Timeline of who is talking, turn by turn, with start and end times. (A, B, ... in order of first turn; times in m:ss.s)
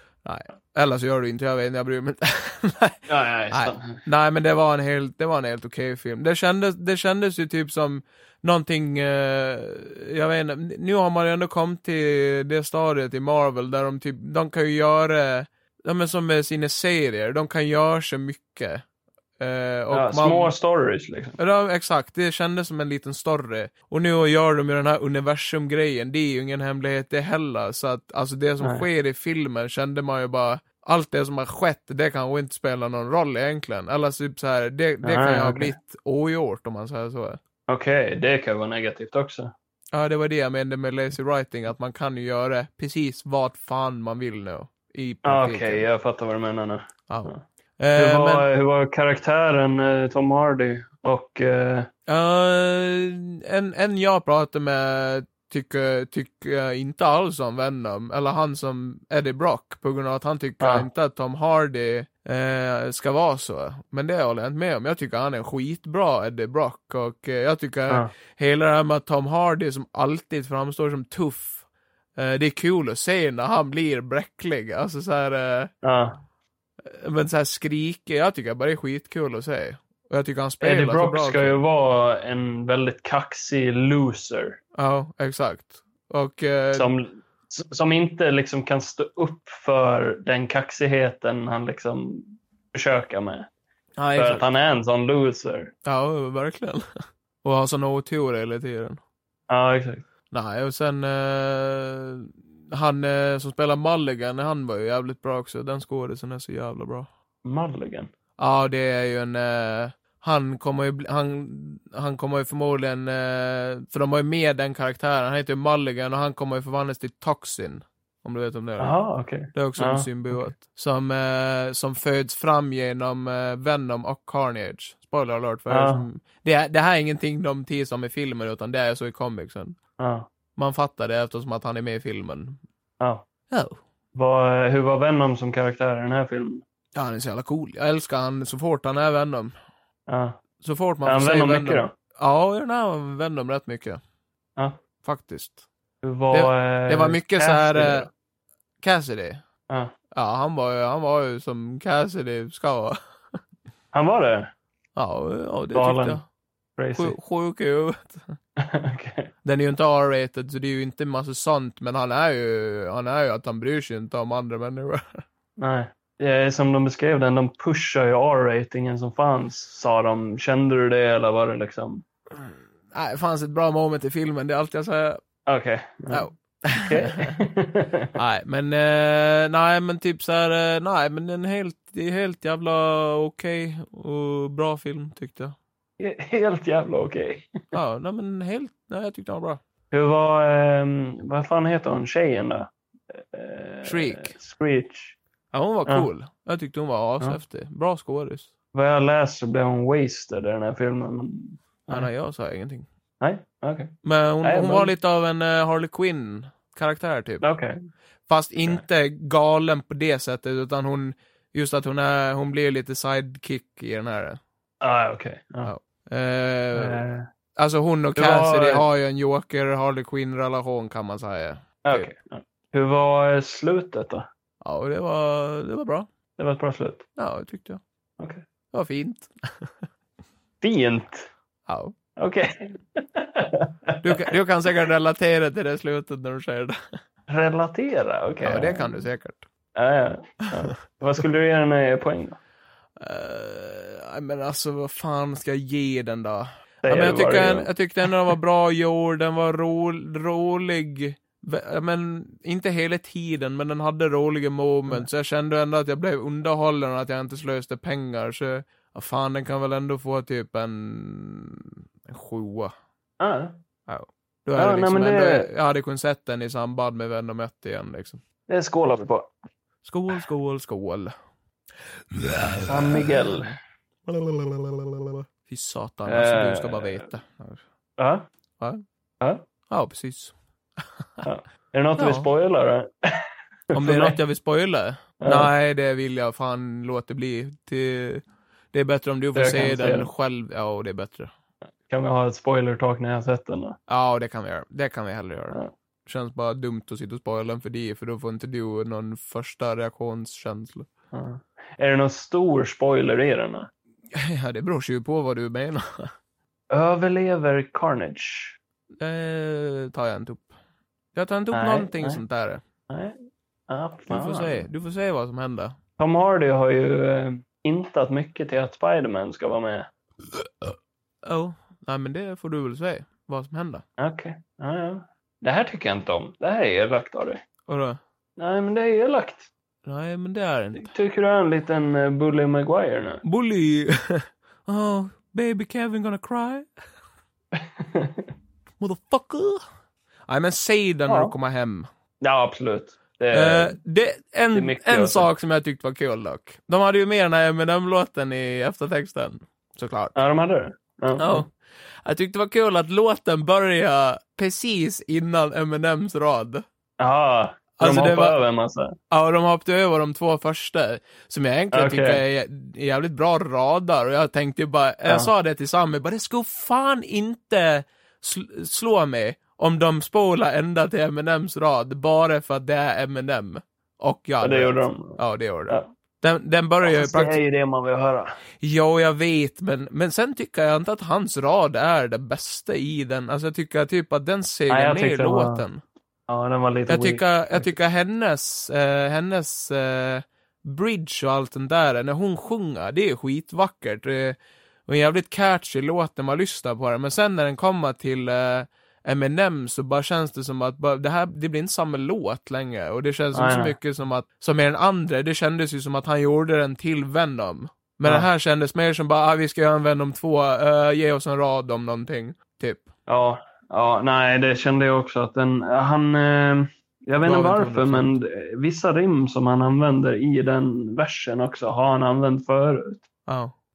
0:00.2-0:18.8 A
0:03.1-0:04.0 B
0:19.4-0:20.5 A
0:19.9-0:21.4 B
0:21.4-0:37.4 A
0:35.0-0:35.7 B
0:37.7-0:39.5 B
0:39.9-0:45.9 A
0:45.2-0:47.4 B
0:47.1-0:48.5 A
0:47.9-0:51.9 B
0:52.1-1:11.6 A
1:00.6-1:00.9 B
1:12.2-1:15.7 A
1:15.8-1:16.2 B
1:16.8-1:21.6 A
1:20.6-1:24.6 B
1:24.8-1:26.9 A
1:26.7-1:33.5 B
1:34.0-1:34.4 A
1:34.2-1:35.7 B
1:35.8-1:36.8 A
1:37.4-1:39.0 A
1:39.5-1:40.0 B
1:40.3-1:47.1 A
1:47.4-1:48.1 B
1:48.4-1:59.0 A
1:58.8-2:00.5 B
1:59.5-2:09.8 A
2:05.7-2:06.0 B
2:10.0-2:10.3 B
2:10.6-2:12.6 A
2:13.0-2:13.2 B
2:13.5-2:13.8 A
2:14.1-2:16.6 B
2:16.9-2:19.5 A
2:20.1-2:20.4 B
2:20.6-2:24.0 A
2:21.0-2:21.9 B
2:25.0-2:25.6 A
2:26.0-2:28.1 B
2:26.3-2:28.1 A
2:28.8-2:29.4 A
2:30.1-2:33.0 A
2:33.9-2:34.5 B
2:35.0-2:36.2 A
2:35.7-2:36.2 B
2:36.8-2:37.2 B
2:37.0-2:38.3 A
2:38.6-2:39.3 B
2:39.4-2:45.2 A
2:45.6-2:52.0 B
2:52.4-2:55.2 A
2:55.4-2:56.3 B
2:56.1-2:57.4 A
2:56.8-2:58.1 B
2:58.2-3:05.6 A
3:06.0-3:07.5 B
3:07.7-3:09.6 A
3:09.9-3:15.2 B
3:13.8-3:14.4 A
3:15.5-3:18.5 A
3:18.7-3:22.1 B
3:21.9-3:22.8 A
3:23.2-3:24.9 B
3:24.0-3:27.4 A
3:27.4-3:27.8 B
3:28.3-3:34.4 A
3:34.8-3:35.7 B
3:35.6-3:37.0 A
3:36.7-3:37.3 B
3:37.6-3:42.1 A
3:38.2-3:38.8 B
3:41.8-3:44.3 B
3:44.6-3:46.1 A
3:46.4-3:47.0 B
3:47.2-3:47.8 A
3:48.7-3:49.7 A
3:50.6-3:51.3 B
3:51.7-3:51.9 A
3:52.2-3:54.2 B
3:54.0-3:56.9 A
3:57.3-3:59.0 B
3:58.4-3:59.5 A
3:59.8-4:02.4 B
4:03.0-4:22.7 A
4:06.8-4:07.7 B
4:23.2-4:23.5 B
4:23.9-4:28.2 A
4:24.6-4:25.5 B
4:28.5-4:29.3 B
4:29.8-4:31.1 A
4:32.2-4:33.5 A
4:32.7-4:33.5 B
4:34.1-4:37.6 A
4:36.1-4:37.0 B
4:38.0-4:38.2 B
4:39.7-4:40.3 A
4:41.0-4:41.2 A
4:41.2-4:42.9 B
4:42.0-4:42.3 A
4:43.7-4:44.2 B
4:43.7-4:51.3 A
4:45.2-4:45.5 B
4:49.4-4:50.1 B
4:51.8-4:53.8 B
4:53.9-5:00.9 A
5:01.1-5:03.7 B
5:04.1-5:06.1 A
5:06.7-5:08.6 B
5:09.0-5:10.5 A
5:11.1-5:12.6 A
5:11.5-5:12.2 B
5:12.9-5:13.2 B
5:13.7-5:14.6 B
5:14.1-5:15.8 A
5:16.0-5:19.9 B
5:21.2-5:23.8 A
5:24.0-5:27.4 B
5:27.7-5:28.0 A
5:28.4-5:29.5 B
5:29.8-5:30.9 A
5:30.8-5:33.2 B
5:33.2-5:36.7 A
5:37.5-5:38.3 B
5:38.8-5:39.6 A
5:40.3-5:41.9 A
5:41.1-5:41.3 B
5:42.2-5:43.8 B
5:43.3-5:50.2 A
5:44.5-5:45.3 B
5:50.2-5:51.4 B
5:51.2-5:51.5 A
5:52.0-5:56.6 A
5:57.0-5:58.9 B
5:57.8-5:58.4 A
5:59.1-6:17.4 A
6:01.7-6:02.2 B
6:14.4-6:15.9 B
6:16.8-6:18.4 B
6:18.6-6:25.8 A
6:24.7-6:25.6 B
6:26.3-6:27.7 B
6:26.9-6:52.9 A
6:43.3-6:43.8 B
6:53.1-7:03.0 B
6:57.2-6:58.2 A
7:03.3-7:03.5 A